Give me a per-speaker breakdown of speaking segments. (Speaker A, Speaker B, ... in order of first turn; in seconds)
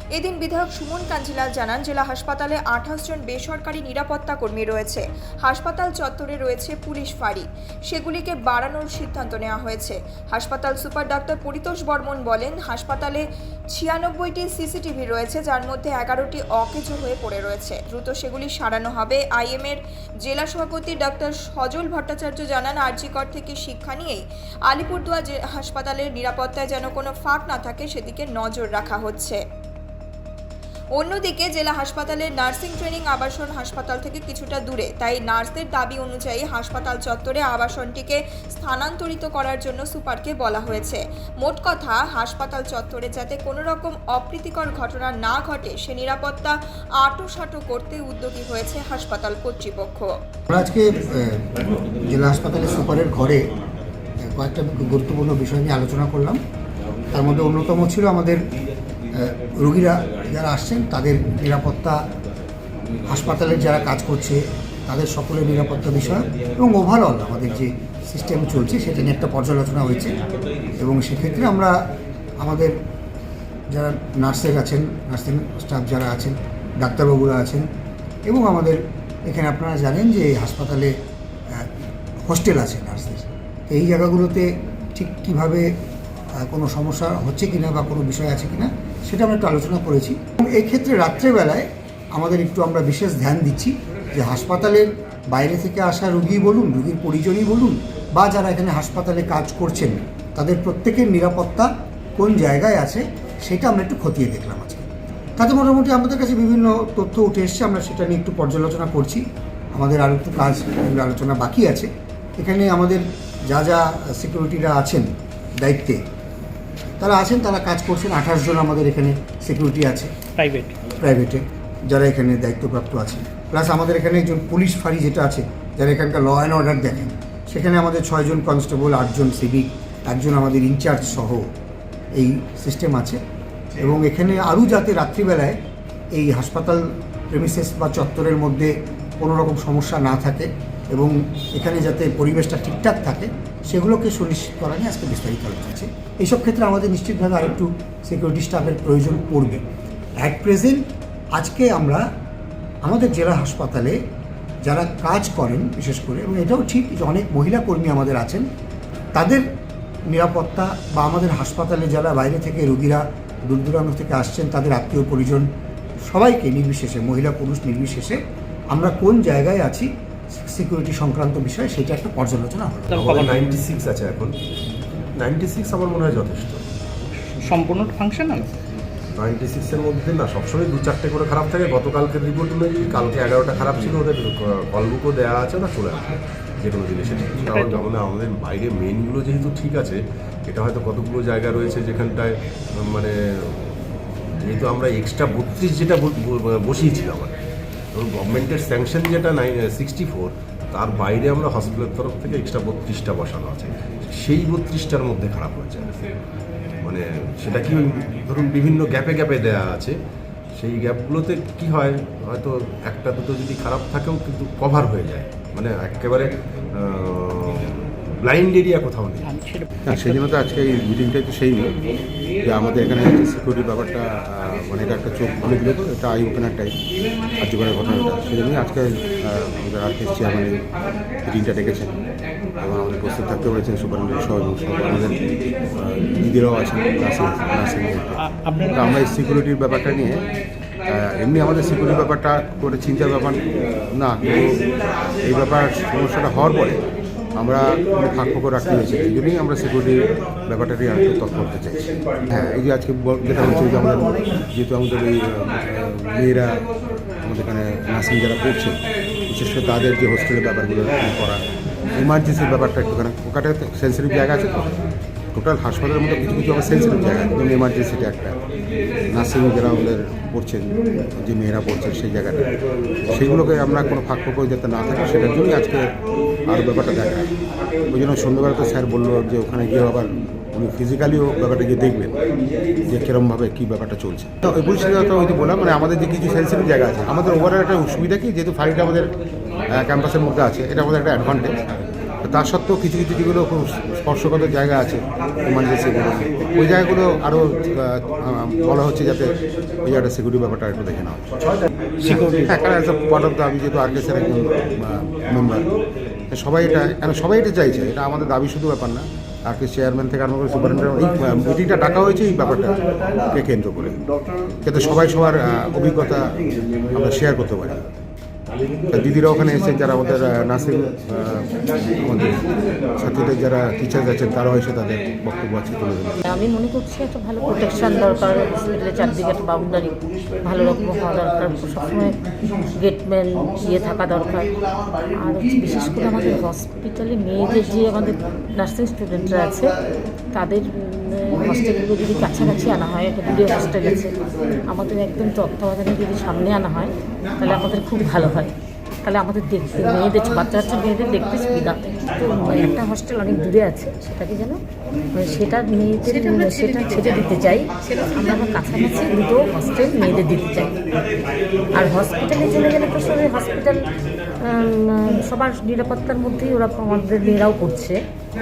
Speaker A: 0.2-13.2, 13.8-29.4, 31.0-50.1
Speaker B: 50.5-53.4, 54.3-56.4, 57.1-58.4, 59.1-62.0, 63.1-70.2, 70.7-71.8, 72.4-72.8, 73.7-77.7, 78.3-80.9, 82.3-85.7, 86.4-104.9, 105.4-109.2, 109.8-115.1, 115.6-116.0, 117.0-120.1, 121.0-131.5, 132.2-133.2, 133.8-135.6, 136.1-149.6, 150.2-150.8, 151.4-152.1, 152.8-154.0, 154.7-158.5, 159.2-159.4, 160.1-165.5, 166.1-173.0
Speaker C: 120.4-120.8, 172.9-173.5, 177.3-178.5, 187.4-187.9, 219.3-219.7, 238.2-238.9, 356.1-358.1
Speaker D: 172.9-174.3, 175.2-176.7, 179.1-197.3, 197.9-206.1, 206.8-210.0, 210.6-219.3
Speaker E: 219.9-221.7, 222.4-226.7, 227.4-230.6, 231.2-232.0, 232.6-238.2, 238.7-240.3, 240.9-243.4, 244.0-244.5, 245.2-246.8, 247.4-256.5, 257.2-261.4, 261.9-264.7, 265.3-268.4, 269.1-272.5, 273.1-275.8, 276.5-277.3, 277.9-282.1, 282.9-289.1, 289.7-301.2, 302.3-305.7, 306.3-312.8, 313.3-314.0, 314.6-316.2, 316.9-318.0, 318.9-322.4, 323.0-326.2
Speaker F: 326.2-334.5, 335.1-339.8, 340.3-354.6, 355.1-360.8, 361.8-363.9, 364.4-368.0